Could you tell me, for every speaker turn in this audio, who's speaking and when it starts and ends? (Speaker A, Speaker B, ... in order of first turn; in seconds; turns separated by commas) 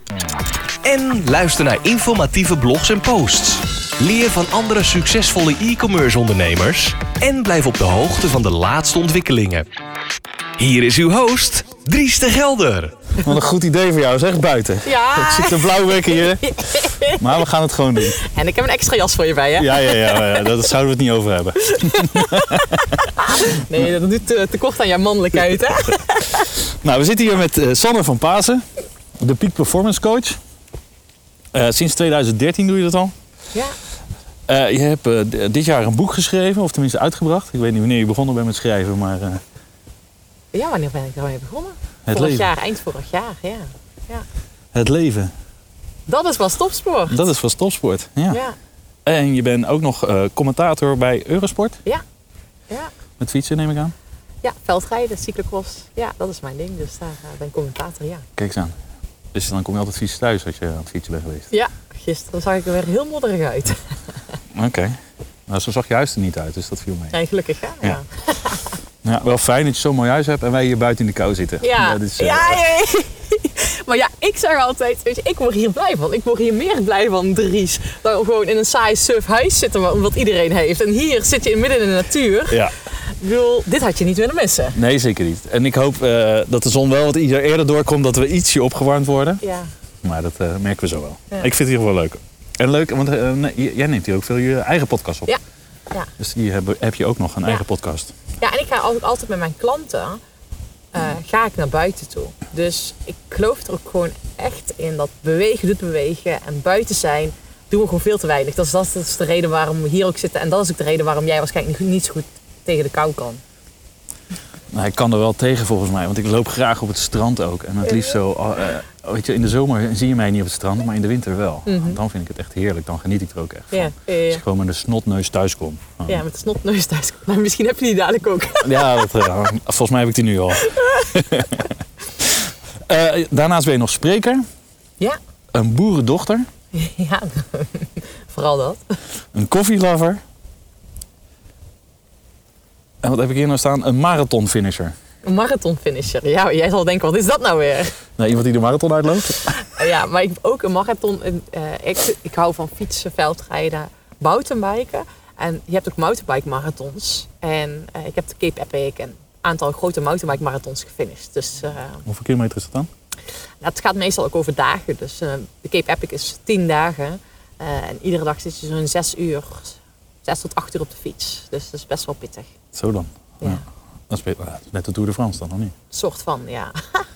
Speaker A: 0.8-9.7, Speaker A: 10.6-12.9, Speaker B: 13.2-18.2, Speaker C: 14.8-17.2, Speaker C: 18.2-20.6, Speaker B: 19.6-22.9, Speaker C: 21.8-26.5, Speaker B: 23.4-23.9, Speaker B: 26.6-28.7, Speaker B: 29.2-30.4, Speaker B: 31.5-33.1, Speaker B: 34.5-39.4, Speaker C: 40.5-44.2, Speaker B: 42.1-42.5, Speaker B: 44.7-45.3, Speaker C: 46.1-47.2, Speaker B: 47.1-48.4, Speaker C: 48.3-48.6, Speaker B: 49.1-51.8, Speaker B: 53.2-53.9, Speaker C: 54.4-58.3, Speaker B: 58.4-58.8, Speaker B: 59.3-61.5, Speaker C: 61.5-64.0, Speaker B: 64.5-67.2, Speaker C: 67.1-68.7, Speaker B: 69.0-72.6, Speaker C: 71.6-84.8, Speaker B: 82.5-82.7, Speaker B: 84.8-89.4, Speaker C: 89.4-89.7, Speaker B: 90.0-95.3, Speaker B: 96.2-98.1, Speaker C: 98.4-100.2, Speaker C: 100.9-113.4, Speaker B: 114.7-126.2, Speaker C: 117.8-118.2, Speaker C: 121.7-122.0, Speaker C: 123.7-124.4, Speaker C: 126.1-129.1, Speaker B: 128.6-131.7, Speaker C: 130.6-131.2, Speaker B: 132.3-134.4, Speaker B: 135.5-136.5, Speaker C: 136.7-139.0, Speaker B: 139.3-140.2, Speaker B: 143.0-144.9, Speaker C: 145.2-147.9, Speaker B: 148.2-149.5, Speaker C: 149.5-162.0, Speaker B: 162.1-162.9, Speaker C: 163.6-172.5, Speaker B: 172.7-175.7, Speaker C: 175.9-177.1